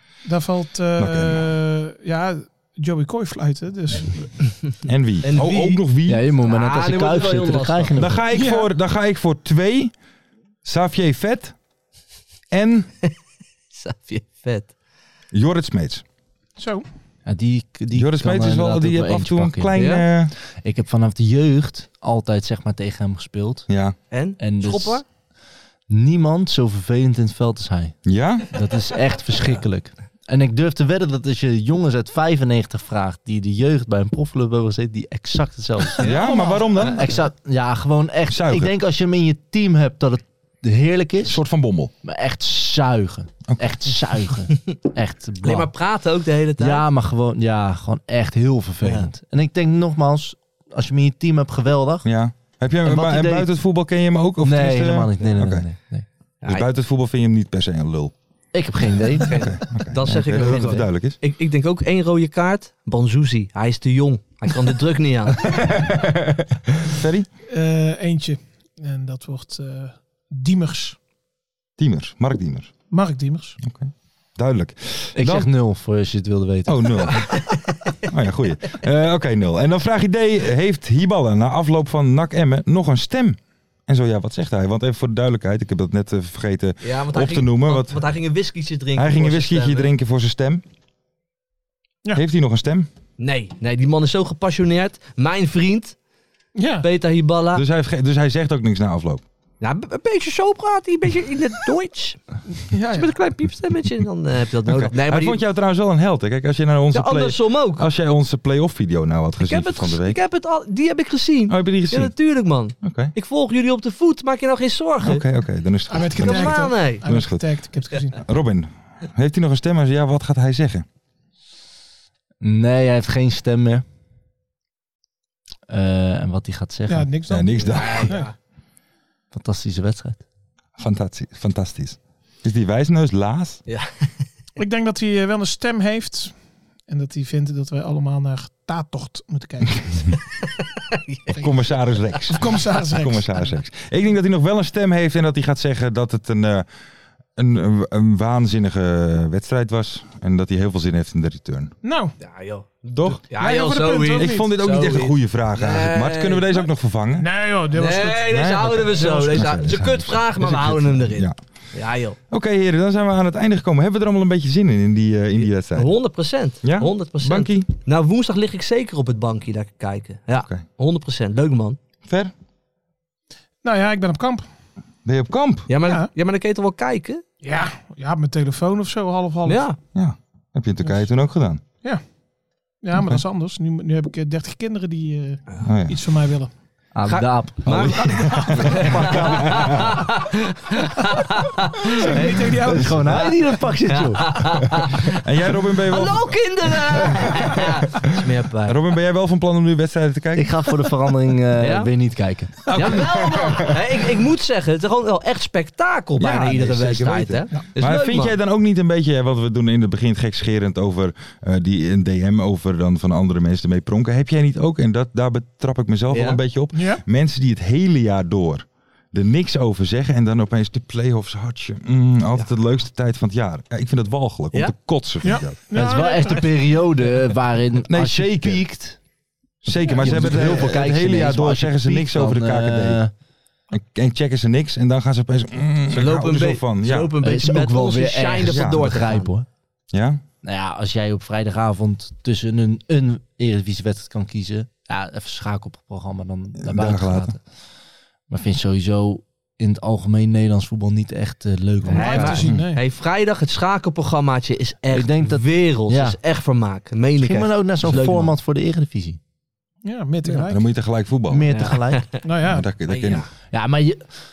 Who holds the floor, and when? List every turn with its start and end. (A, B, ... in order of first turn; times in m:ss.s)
0:00.2-0:04.3 A
0:01.0-0:01.4 B
0:04.9-0:06.2 B
0:05.2-0:05.8 C
0:06.1-0:08.2 D
0:06.4-0:08.0 C
0:08.0-0:09.9 B
0:08.3-0:08.7 A
0:10.6-0:11.6 B
0:12.5-0:12.9 B
0:13.7-0:14.7 C
0:15.3-0:16.0 B
0:16.6-0:16.9 A
0:17.3-0:19.9 D
0:17.9-0:20.3 B
0:19.8-0:20.1 C
0:20.5-0:23.7 D
0:23.7-0:24.0 B
0:24.1-0:25.0 C
0:24.4-0:25.0 D
0:25.9-0:28.0 D
0:28.1-0:28.5 B
0:28.5-0:36.2 D
0:36.0-0:36.7 A
0:36.0-0:37.1 B
0:36.8-0:41.4 D
0:38.3-0:38.7 B
0:41.3-0:41.9 B
0:42.0-0:45.7 D
0:45.4-0:46.8 C
0:46.6-0:52.1 D
0:48.8-0:49.1 C
0:52.0-0:55.7 B
0:52.8-0:53.5 D
0:54.4-0:56.1 D
0:56.4-0:56.7 C
0:56.5-0:58.1 B
0:58.5-0:59.5 D
0:59.2-1:05.4 C
0:59.3-1:01.2 B
1:00.4-1:00.8 D
1:05.5-1:06.1 D
1:06.8-1:07.3 B
1:07.5-1:11.0 A
1:11.8-1:12.7 B
1:12.9-1:13.6 A
1:13.6-1:15.5 B
1:15.2-1:17.1 D
1:16.7-1:17.3 B
1:17.1-1:18.0 C
1:18.1-1:28.0 B
1:26.8-1:29.9 C
1:29.0-1:30.6 B
1:32.2-1:32.9 B
1:33.2-1:36.0 C
1:36.6-1:36.9 A
1:36.8-1:37.6 C
1:37.6-1:39.2 B
1:39.6-1:42.2 C
1:42.6-1:43.1 A
1:42.9-1:45.4 C
1:44.7-1:50.2 B
1:46.9-1:47.9 C
1:49.4-1:55.2 C
1:51.5-1:52.1 B
1:52.8-1:53.1 B
1:55.0-1:57.4 B
1:55.9-1:58.2 A
1:56.2-1:57.0 C
1:58.2-2:00.8 B
2:02.4-2:03.8 D
2:05.7-2:07.1 D
2:06.9-2:08.3 A
2:07.3-2:08.1 B
2:07.7-2:08.4 C
2:09.3-2:10.2 D
2:10.8-2:13.6 B
2:14.6-2:16.4 A
2:16.9-2:20.2 A
2:20.9-2:21.4 C
2:21.3-2:26.7 B
2:22.3-2:23.4 A
2:27.4-2:31.7 B
2:31.8-2:32.2 A
2:32.2-2:36.7 C
2:33.0-2:33.2 B
2:33.4-2:34.5 A
2:34.2-2:37.3 B
2:37.2-2:38.3 A
2:37.8-2:42.2 C
2:38.3-2:41.4 B
2:39.0-2:39.5 D
2:42.3-2:45.9 B
2:45.4-2:51.8 C
2:46.6-2:47.7 B
2:52.1-2:52.3 B
2:53.6-2:54.5 A
2:55.0-2:55.7 B
2:55.7-2:57.2 C
2:57.4-2:59.6 A
2:59.4-2:59.8 C
3:00.0-3:01.6 B
3:02.8-3:06.5 A
3:03.0-3:03.2 B
3:05.6-3:06.0 B
3:07.0-3:08.0 D
3:07.0-3:12.6 C
3:07.7-3:09.9 B
3:08.0-3:08.7 A
3:08.5-3:09.9 D
3:11.8-3:13.2 A
3:12.6-3:14.7 D
3:13.8-3:15.2 C
3:15.1-3:17.7 B
3:15.9-3:18.8 C
3:18.7-3:20.6 B
3:20.4-3:23.1 D
3:21.6-3:21.9 C
3:22.7-3:23.8 B
3:22.7-3:28.4 C
3:26.2-3:45.6 B
3:36.1-3:36.4 C
3:36.7-3:37.0 A
3:45.2-3:46.5 A
3:45.7-3:49.0 D
3:47.9-3:48.6 B
3:49.6-3:53.1 D
3:49.6-3:53.0 B
3:53.7-3:57.1 B
3:55.9-3:59.3 C
3:57.2-3:59.5 D
3:58.4-3:58.8 B
3:59.9-4:00.2 B
4:00.4-4:07.4 D
4:06.6-4:07.4 B
4:08.3-4:12.5 D
4:11.9-4:18.3 C
4:11.9-4:12.8 A
4:12.4-4:12.7 B
4:14.9-4:16.2 D
4:17.2-4:19.2 D
4:19.8-4:20.6 A
4:20.5-4:21.5 B
4:21.3-4:22.1 D
4:21.5-4:22.2 C
4:22.2-4:22.7 A
4:22.4-4:23.3 B
4:22.9-4:23.3 C
4:23.5-4:24.1 D